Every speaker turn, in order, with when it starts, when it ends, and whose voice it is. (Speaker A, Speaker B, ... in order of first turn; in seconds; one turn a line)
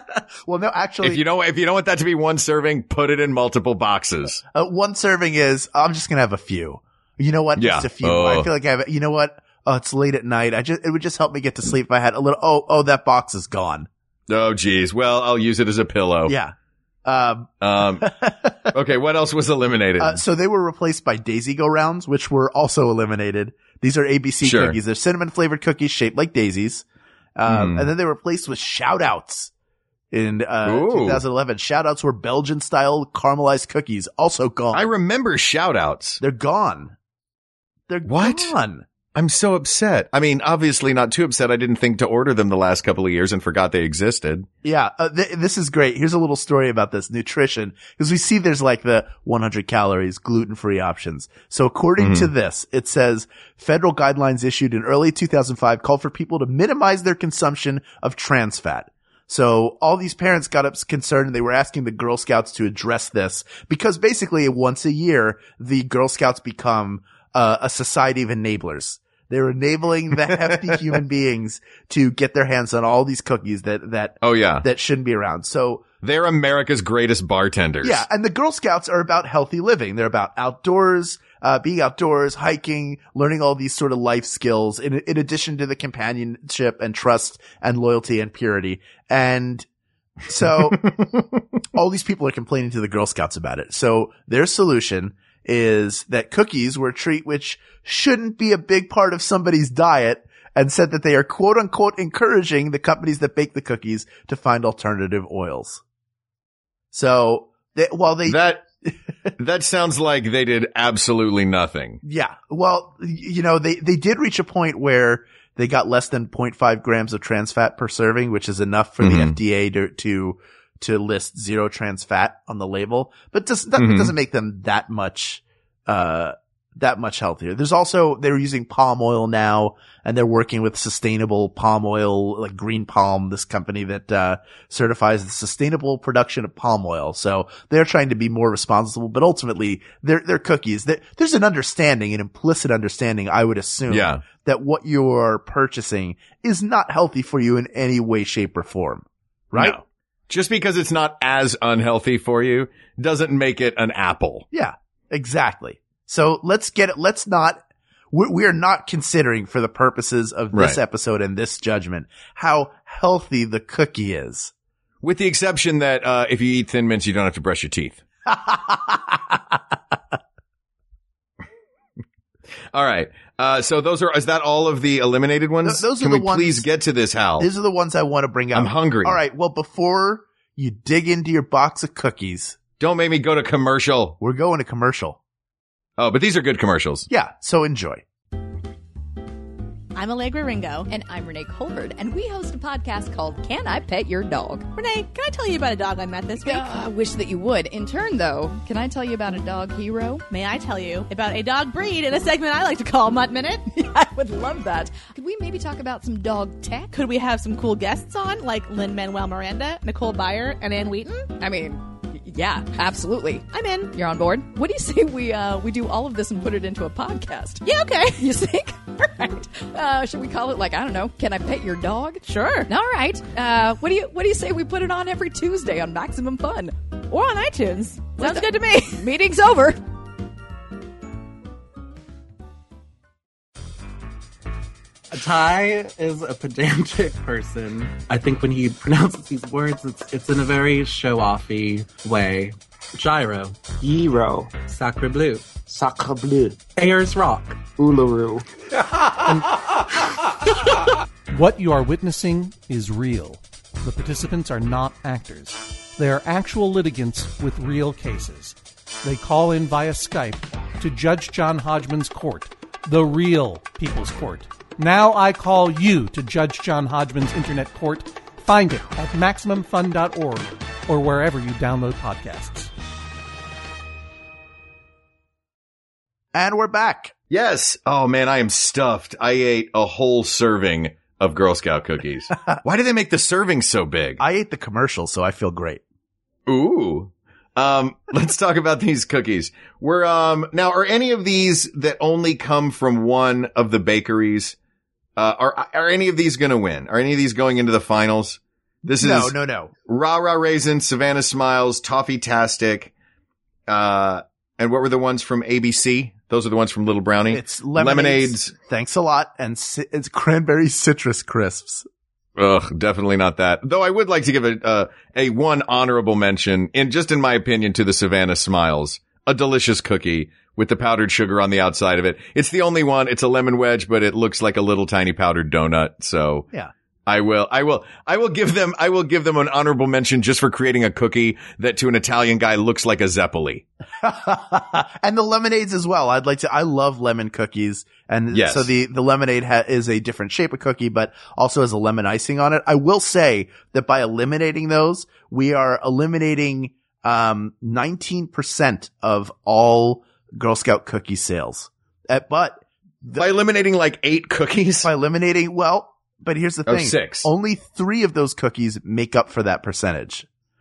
Speaker A: 0.5-1.2
Speaker B: 1.0-4.4
Speaker A: 4.5-13.9
Speaker B: 7.6-8.5
Speaker B: 14.3-16.3
Speaker A: 16.3-16.5
Speaker A: 17.1-18.7
Speaker B: 17.6-18.1
Speaker B: 18.7-20.2
Speaker A: 20.0-26.9
Speaker B: 24.4-24.8
Speaker A: 27.4-29.5
Speaker B: 27.5-27.9
Speaker A: 30.1-34.9
Speaker B: 30.6-31.2
Speaker B: 34.7-36.2
Speaker A: 36.2-37.0
Speaker A: 37.9-38.9
Speaker B: 38.1-38.5
Speaker B: 39.1-44.5
Speaker A: 44.6-75.8
Speaker B: 52.0-52.3
Speaker B: 70.2-71.0
Speaker B: 74.2-74.7
Speaker B: 76.0-78.0
Speaker A: 77.8-89.7
Speaker A: 90.3-91.1
Speaker B: 90.7-91.0
Speaker A: 91.7-105.8
Speaker A: 106.9-108.9
Speaker B: 108.3-108.7
Speaker B: 109.4-112.0
Speaker A: 112.0-149.8
Speaker B: 119.0-119.3
Speaker B: 123.8-124.1
Speaker B: 143.9-144.2
Speaker B: 149.6-154.5
Speaker A: 154.5-157.6
Speaker A: 158.1-164.5
Speaker B: 160.5-160.8
Speaker B: 165.0-168.0
Speaker A: 168.3-169.4
Speaker B: 172.7-177.5
Speaker A: 175.7-176.7
Speaker A: 177.4-182.6
Speaker B: 178.5-179.2
Speaker B: 182.8-184.2
Speaker A: 184.2-185.2
Speaker B: 186.0-187.1
Speaker A: 187.1-188.0
Speaker C: 189.9-190.9
Speaker D: 190.9-194.7
Speaker C: 194.8-196.7
Speaker D: 196.4-200.2
Speaker C: 200.3-203.7
Speaker D: 203.7-206.9
Speaker C: 206.9-211.3
Speaker D: 211.3-229.8
Speaker C: 213.5-213.9
Speaker C: 217.6-218.2
Speaker C: 222.3-222.7
Speaker C: 228.2-228.5
Speaker E: 235.1-248.4
Speaker F: 251.3-272.7
Speaker A: 276.3-277.1
Speaker B: 277.3-284.2
Speaker A: 284.2-285.8
Speaker B: 286.5-294.6
Speaker B: 295.2-302.9
Speaker A: 299.0-299.7
Speaker B: 303.7-308.5
Speaker A: 307.3-311.9
Speaker B: 312.4-326.5
Speaker B: 327.1-333.6
Speaker A: 334.0-353.3
Speaker B: 338.3-338.7
Speaker B: 353.2-354.9
Speaker A: 354.8-360.3
Speaker B: 356.7-357.3